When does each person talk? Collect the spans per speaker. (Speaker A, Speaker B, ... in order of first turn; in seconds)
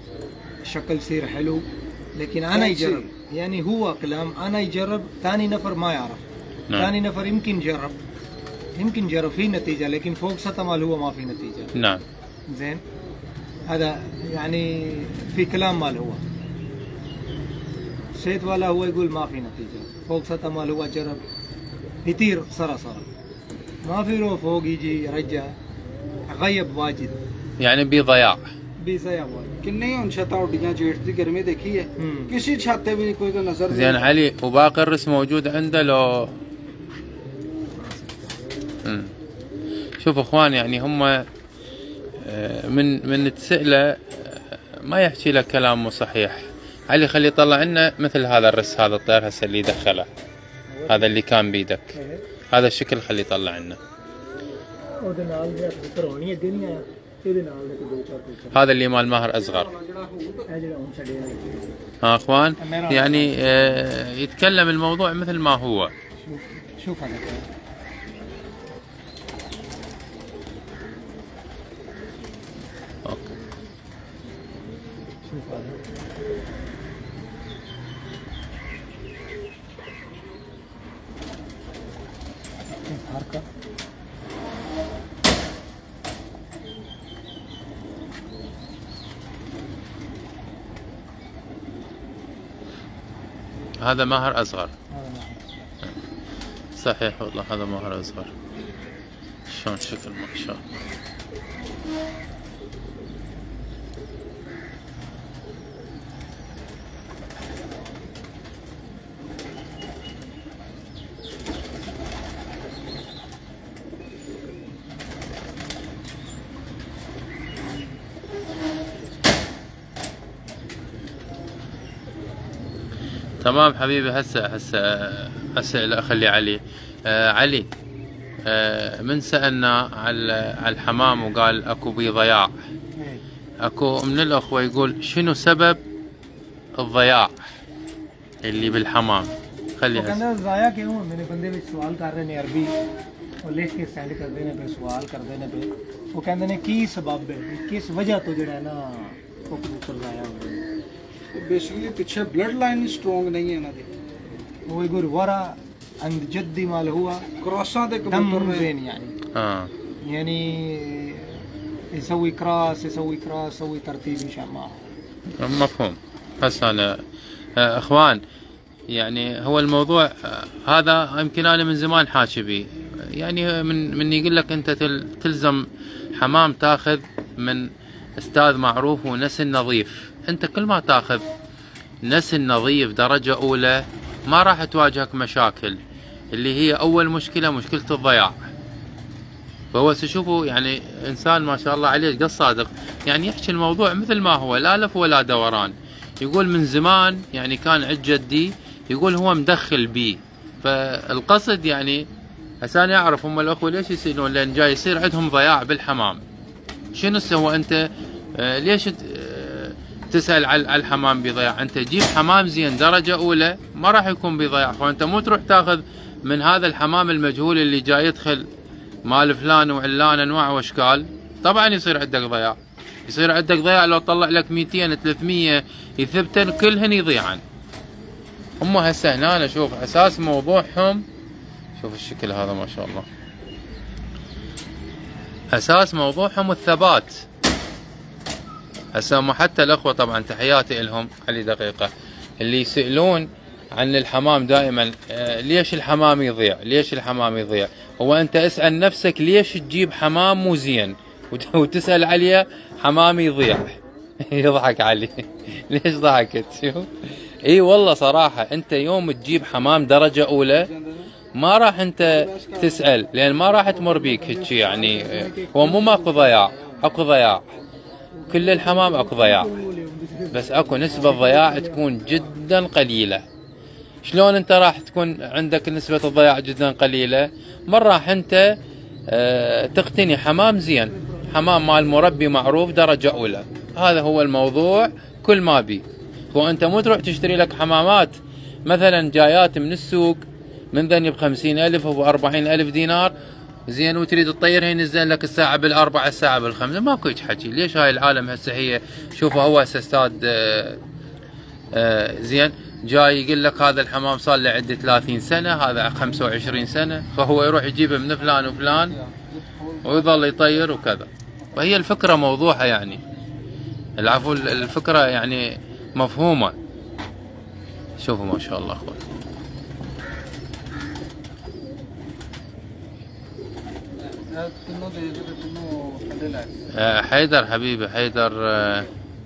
Speaker A: 0.6-8.0, 8.8-11.7, 12.5-12.8, 13.7-16.2, 18.1-21.2, 22.1-23.1, 23.9-25.6, 26.3-27.2, 28.8-29.6, 32.0-32.4, 37.8-38.1, 50.7-51.1, 51.9-52.2, 55.0-58.6, 60.5-61.7, 62.6-63.8, 66.2-67.5, 75.3-75.8, 82.8-83.5, 94.9-95.6, 133.0-133.2, 139.9-142.8, 143.4-150.6, 154.7-157.3, 158.1-159.2, 160.0-164.8, 263.7-267.0, 268.1-271.9
Speaker B: 2.5-3.1, 29.6-34.1, 59.4-60.5, 151.3-153.9, 157.4-158.7, 260.5-261.1, 262.0-262.9, 308.7-310.5, 324.1-326.6
Speaker C: 11.8-12.0, 27.6-28.4, 33.7-36.4, 38.8-39.1, 40.0-41.3, 42.2-50.1, 50.9-51.9, 52.5-53.8, 58.5-59.7, 62.0-65.9, 73.0-73.3, 93.8-94.7, 96.8-98.3, 99.5-100.7, 123.4-127.7, 128.4-132.5, 133.6-135.8, 136.8-137.5, 138.4-140.2, 159.3-159.7, 165.4-167.0, 167.6-168.2, 168.9-181.2, 182.0-185.8, 186.3-188.3, 189.7-202.1, 202.6-206.2, 206.9-218.5, 219.1-227.4, 228.6-231.0, 231.8-233.1, 235.5-237.2, 238.9-260.7, 261.4-267.4, 268.3-269.5, 270.3-273.2, 274.0-278.6, 279.1-293.1, 293.7-300.8, 301.7-309.0, 309.8-313.0, 314.0-316.6, 318.0-319.1, 326.7-328.9